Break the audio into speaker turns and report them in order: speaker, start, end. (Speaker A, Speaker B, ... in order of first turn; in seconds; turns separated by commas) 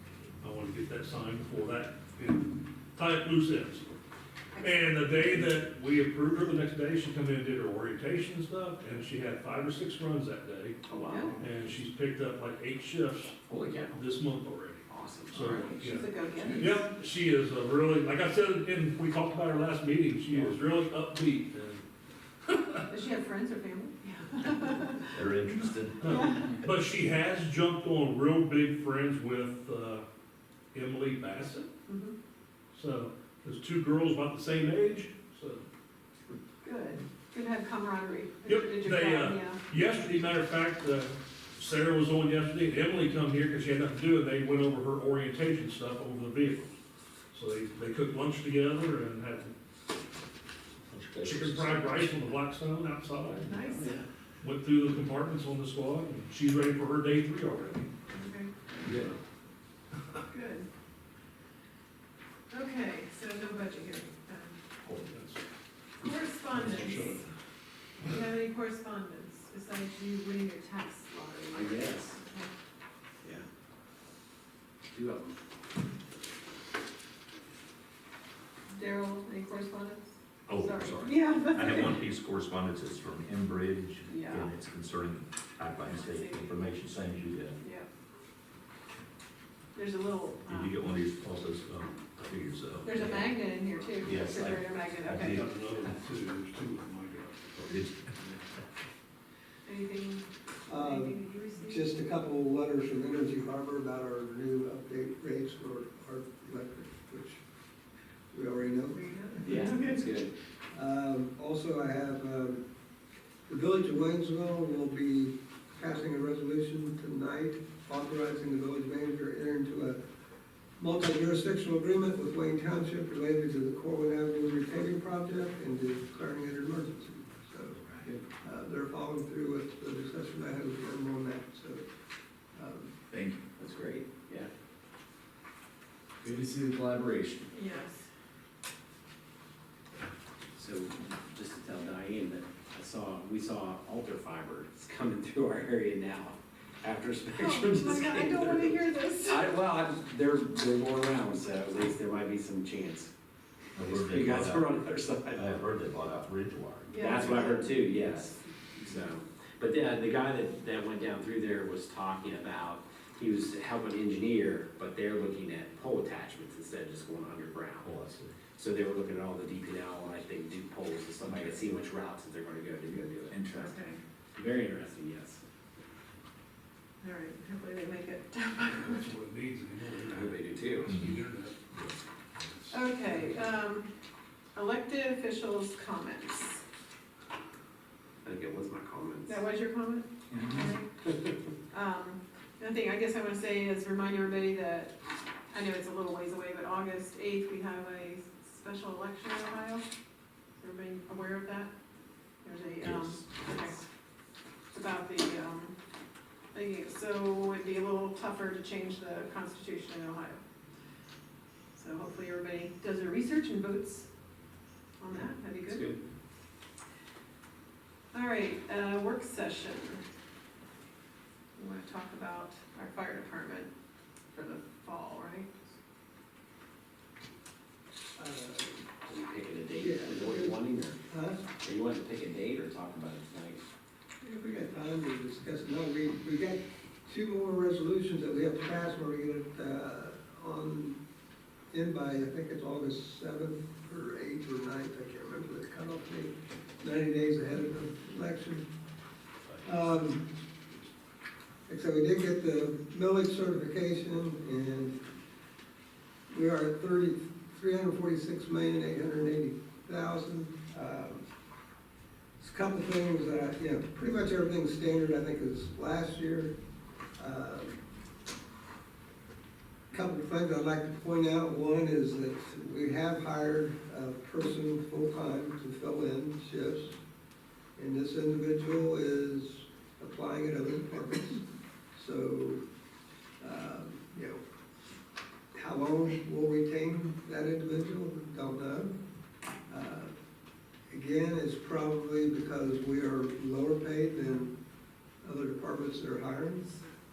Speaker A: 0.4-3.9, Speaker A: 4.6-10.8, Speaker B: 10.9-11.4, Speaker C: 11.1-11.4, Speaker A: 11.4-13.4, Speaker B: 13.5-14.0, Speaker A: 13.9-21.8, Speaker B: 14.9-15.7, Speaker C: 15.5-16.7, Speaker B: 16.4-16.8, Speaker A: 22.5-22.8, Speaker C: 22.9-25.0, Speaker D: 25.1-26.6, Speaker A: 26.0-30.1, Speaker A: 30.7-31.7, Speaker C: 31.9-32.1, Speaker A: 32.7-35.6, Speaker C: 36.6-39.6, Speaker A: 38.5-46.7, Speaker A: 47.3-49.5, Speaker D: 50.9-52.0, Speaker A: 51.2-53.6, Speaker B: 53.2-54.0, Speaker C: 53.4-54.0, Speaker A: 54.4-57.9, Speaker C: 58.1-58.7, Speaker D: 58.8-59.1, Speaker C: 60.3-60.7, Speaker C: 62.5-64.6, Speaker A: 65.0-65.4, Speaker C: 66.0-67.3, Speaker A: 66.5-67.2, Speaker C: 68.0-72.5, Speaker B: 71.5-72.2, Speaker B: 74.9-75.4, Speaker C: 78.7-80.1, Speaker D: 80.5-87.6, Speaker C: 80.6-82.0, Speaker C: 84.1-84.5, Speaker C: 85.9-86.6, Speaker C: 87.6-87.9, Speaker C: 89.8-90.7, Speaker D: 90.5-93.4, Speaker C: 92.8-95.3, Speaker D: 94.0-95.5, Speaker A: 95.2-97.5, Speaker D: 97.5-98.1, Speaker C: 99.6-101.9, Speaker E: 100.7-107.4, Speaker E: 108.3-109.8, Speaker B: 109.4-110.3, Speaker C: 109.5-110.0, Speaker E: 110.7-112.6, Speaker E: 113.5-120.0, Speaker E: 120.8-127.8, Speaker E: 128.4-131.8, Speaker E: 132.6-132.9, Speaker D: 133.1-133.4, Speaker B: 133.6-134.5, Speaker B: 136.2-137.5, Speaker C: 137.5-138.1, Speaker B: 140.6-153.1, Speaker C: 147.3-149.6, Speaker D: 153.8-154.8, Speaker B: 153.8-155.5, Speaker D: 155.3-157.0, Speaker C: 156.9-158.3, Speaker B: 157.0-167.9, Speaker D: 167.8-168.4, Speaker B: 168.5-173.8, Speaker D: 173.3-173.8, Speaker C: 173.6-174.0, Speaker B: 174.3-175.4, Speaker C: 177.0-179.1, Speaker A: 178.7-181.6, Speaker B: 180.1-181.0, Speaker D: 180.9-181.1, Speaker A: 182.6-183.5, Speaker C: 182.7-183.9, Speaker C: 184.5-186.6, Speaker B: 188.2-189.4, Speaker C: 189.3-190.9, Speaker D: 190.3-190.8, Speaker C: 191.7-195.0, Speaker C: 195.5-199.9, Speaker C: 200.6-201.7, Speaker C: 202.4-203.8, Speaker B: 202.8-203.8, Speaker C: 204.7-205.8, Speaker C: 206.5-210.4, Speaker C: 211.7-214.1, Speaker C: 215.0-215.9, Speaker B: 215.1-216.0, Speaker C: 218.1-220.0, Speaker C: 221.6-223.7, Speaker C: 224.3-225.5, Speaker E: 228.2-228.8, Speaker B: 229.1-231.0, Speaker E: 229.8-231.4, Speaker B: 231.6-233.7, Speaker E: 234.2-241.0, Speaker E: 241.7-248.7, Speaker E: 249.6-250.3, Speaker E: 251.7-255.0, Speaker E: 256.3-261.2, Speaker E: 262.4-266.5, Speaker E: 267.2-267.8, Speaker E: 269.9-277.0, Speaker E: 277.8-281.4, Speaker E: 281.9-282.6, Speaker E: 283.4-284.4, Speaker E: 285.5-288.9, Speaker E: 289.7-290.1, Speaker E: 290.9-294.5, Speaker E: 295.2-296.8